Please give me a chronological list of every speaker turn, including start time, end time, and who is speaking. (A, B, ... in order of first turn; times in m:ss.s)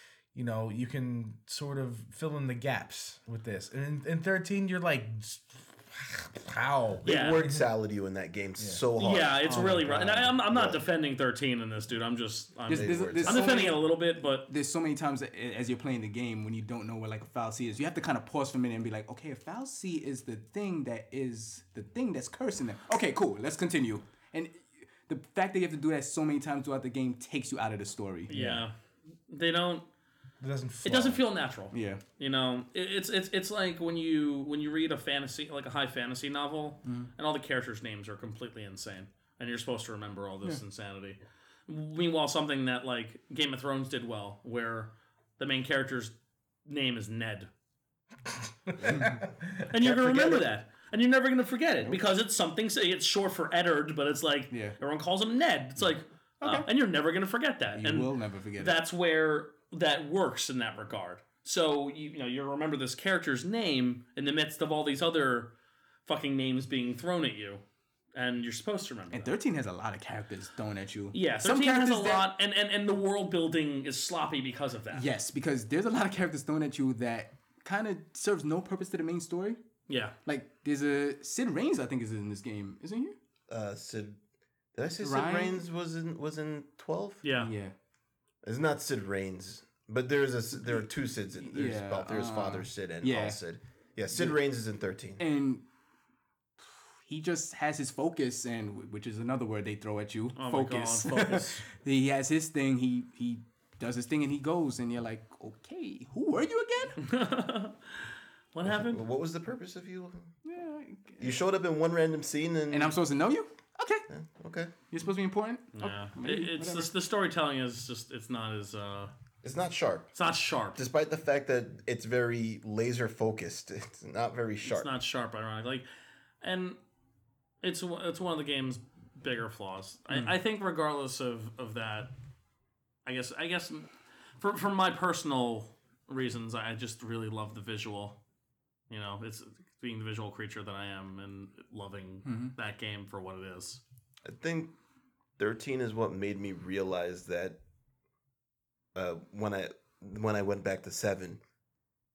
0:00.3-0:07.7 A
0:07.0-0:10.8 B
0:07.0-0:07.4 C
0:08.6-0:08.8 A
0:09.0-0:14.4 C
0:09.5-0:09.9 D
0:12.7-0:13.6 B
0:12.7-0:28.6 D
0:28.3-0:28.7 C
0:29.3-0:29.8 C
0:30.4-0:31.2 A
0:30.8-0:46.1 C
0:31.7-0:32.0 D
0:36.8-0:37.1 D
0:46.6-0:47.5 C
0:48.7-0:49.7 A
0:48.8-0:49.2 D
0:49.6-1:05.5 C
0:49.7-0:50.4 B
0:54.5-0:54.8 D
0:56.4-0:56.7 D
0:57.7-0:58.8 D
1:06.0-1:07.6 C
1:08.1-1:09.3 C
1:09.1-1:12.3 D
1:11.1-1:15.1 C
1:14.9-1:19.6 D
1:19.9-1:20.1 C
1:20.2-1:23.2 D
1:23.5-1:24.2 B
1:24.7-1:27.2 B
1:25.0-1:25.6 D
1:27.2-1:27.5 C
1:27.3-1:27.7 D
1:28.4-1:35.2 B
1:30.6-1:33.4 D
1:34.1-1:34.4 D
1:35.2-1:35.6 D
1:37.0-1:47.0 D
1:40.4-1:41.6 C
1:47.0-1:49.0 C
1:48.6-1:50.3 B
1:50.4-1:51.4 D
1:51.2-1:53.0 B
1:52.7-1:54.0 D
1:54.1-1:54.7 B
1:54.9-1:56.9 D
1:55.8-1:59.1 C
1:59.4-2:00.1 B
2:00.1-2:00.8 C
2:00.8-2:04.9 B
2:04.6-2:05.8 C
2:06.4-2:06.8 C
2:07.6-2:12.1 C
2:13.0-2:18.2 C
2:18.9-2:23.8 C
2:22.2-2:22.5 D
2:24.2-2:24.7 B
2:25.4-2:27.6 B
2:28.9-2:31.4 B